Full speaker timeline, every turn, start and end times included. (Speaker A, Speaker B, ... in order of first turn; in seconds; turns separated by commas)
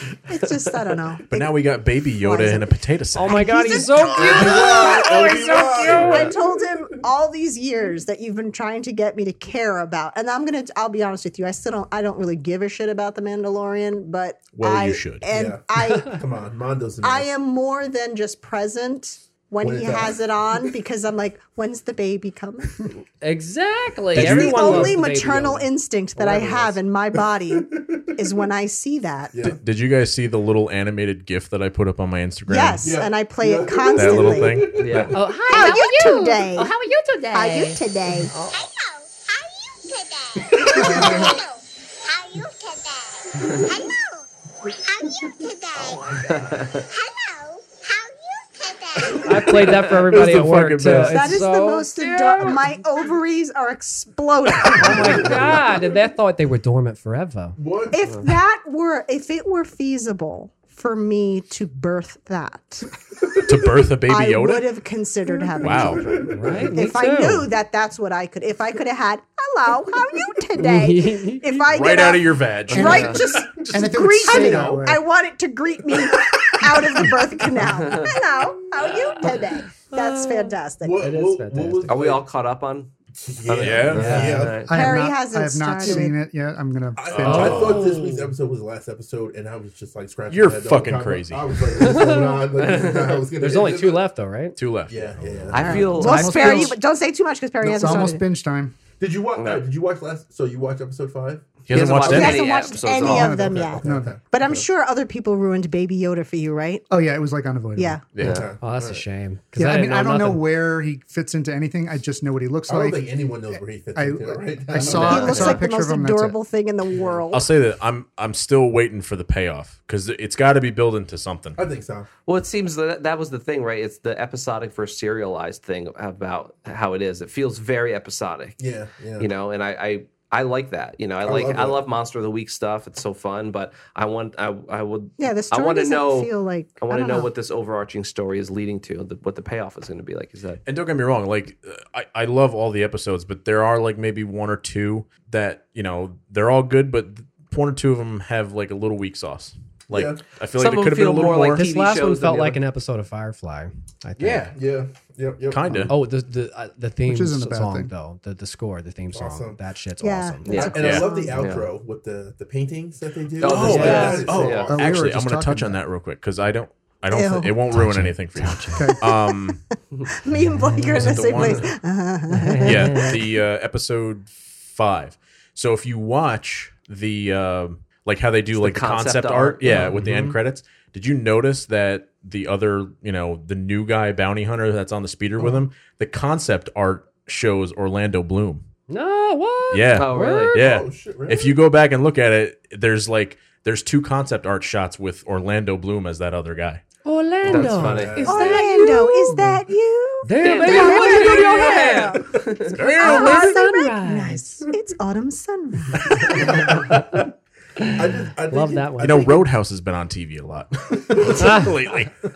Speaker A: 0.3-16.2, Speaker B: 0.3-0.7, Speaker C: 1.3-3.8, Speaker D: 3.1-6.3, Speaker E: 4.1-7.0, Speaker C: 14.5-15.3, Speaker E: 15.3-17.3, Speaker A: 17.0-22.9, Speaker E: 19.6-20.2, Speaker D: 23.2-25.7, Speaker C: 24.1-24.9, Speaker A: 24.1-29.4, Speaker E: 26.2-28.3, Speaker E: 29.3-29.6, Speaker C: 29.4-32.9, Speaker A: 32.5-34.6, Speaker E: 32.8-35.4, Speaker C: 34.0-35.0, Speaker B: 34.8-35.2, Speaker F: 35.1-37.8, Speaker A: 35.5-36.7, Speaker A: 37.3-38.3, Speaker G: 38.4-44.2, Speaker E: 40.5-41.3, Speaker G: 44.8-46.2, Speaker B: 46.2-46.8, Speaker G: 46.9-49.5, Speaker D: 49.1-52.6, Speaker E: 49.2-49.9, Speaker C: 50.1-51.4, Speaker A: 51.0-55.4, Speaker E: 54.6-55.8, Speaker D: 54.8-57.6, Speaker E: 57.6-58.0, Speaker A: 57.9-62.9, Speaker E: 63.2-63.9, Speaker C: 63.5-64.7, Speaker A: 64.1-81.0, Speaker C: 65.6-66.1, Speaker E: 65.6-66.9, Speaker D: 66.3-67.5, Speaker D: 70.6-71.5, Speaker C: 71.7-73.9, Speaker H: 72.7-73.1, Speaker B: 72.8-73.2, Speaker H: 73.7-75.0, Speaker B: 77.6-78.2, Speaker B: 78.8-79.4, Speaker D: 79.9-82.0, Speaker E: 80.8-82.3, Speaker B: 81.9-82.9, Speaker E: 83.2-84.7, Speaker B: 83.5-84.9, Speaker C: 83.6-84.4, Speaker D: 83.9-84.3, Speaker H: 84.6-87.7, Speaker A: 84.7-86.2, Speaker E: 87.0-94.1, Speaker C: 87.1-88.0, Speaker D: 87.2-88.3, Speaker C: 90.3-91.7, Speaker D: 91.8-92.4, Speaker B: 92.6-93.2, Speaker D: 93.4-94.6, Speaker C: 94.6-95.8, Speaker E: 94.9-96.0, Speaker B: 95.5-96.8, Speaker A: 95.7-98.2, Speaker H: 95.8-96.8, Speaker E: 97.6-98.1, Speaker H: 97.7-98.8, Speaker E: 99.0-101.8, Speaker B: 99.4-99.6, Speaker C: 101.7-102.6, Speaker B: 101.7-103.3, Speaker A: 102.0-106.8, Speaker E: 102.9-104.7, Speaker H: 103.0-104.2, Speaker H: 106.9-108.0, Speaker A: 107.8-108.1, Speaker C: 108.1-108.5, Speaker B: 108.2-108.5, Speaker E: 108.2-109.1, Speaker D: 108.6-110.5, Speaker H: 109.6-116.4, Speaker E: 112.7-115.5, Speaker D: 114.8-115.2, Speaker A: 115.0-117.5, Speaker B: 115.1-115.6, Speaker E: 116.9-117.2, Speaker C: 117.3-121.6, Speaker E: 121.6-122.1, Speaker B: 122.3-128.6, Speaker E: 128.6-129.3, Speaker B: 129.2-140.6, Speaker E: 131.2-131.8, Speaker A: 135.2-137.3, Speaker C: 140.7-151.7, Speaker E: 149.9-150.3, Speaker B: 150.6-152.6, Speaker D: 151.5-154.5, Speaker C: 154.2-154.6, Speaker E: 154.4-155.9, Speaker C: 155.5-155.9, Speaker D: 155.8-160.8, Speaker H: 157.1-157.9, Speaker E: 159.1-159.6, Speaker A: 160.0-161.4, Speaker B: 160.4-161.7, Speaker E: 160.5-165.0, Speaker C: 160.7-161.1, Speaker B: 163.4-164.8, Speaker C: 163.4-169.6, Speaker D: 163.7-164.3, Speaker H: 164.7-165.8, Speaker A: 167.1-167.7, Speaker D: 167.7-168.8, Speaker H: 168.7-169.0, Speaker A: 169.0-169.5, Speaker A: 170.2-173.3, Speaker D: 170.3-171.5, Speaker C: 170.9-171.8, Speaker D: 172.3-173.2, Speaker C: 172.6-188.7, Speaker B: 178.5-179.9, Speaker D: 179.7-180.3, Speaker D: 188.9-190.6, Speaker C: 189.7-196.8, Speaker B: 190.0-190.6, Speaker E: 190.6-191.6, Speaker D: 197.1-199.4, Speaker B: 197.4-198.3, Speaker E: 197.4-198.8, Speaker A: 198.2-202.2, Speaker F: 198.4-199.2, Speaker D: 200.2-202.1, Speaker B: 200.4-202.8, Speaker F: 200.6-201.8, Speaker C: 202.6-203.6, Speaker A: 202.8-206.5, Speaker D: 203.0-204.4, Speaker F: 203.1-204.1, Speaker E: 206.1-207.3, Speaker D: 206.9-207.2, Speaker D: 207.8-209.3, Speaker E: 208.0-209.6, Speaker C: 209.0-212.1, Speaker E: 211.0-211.9, Speaker D: 211.3-211.7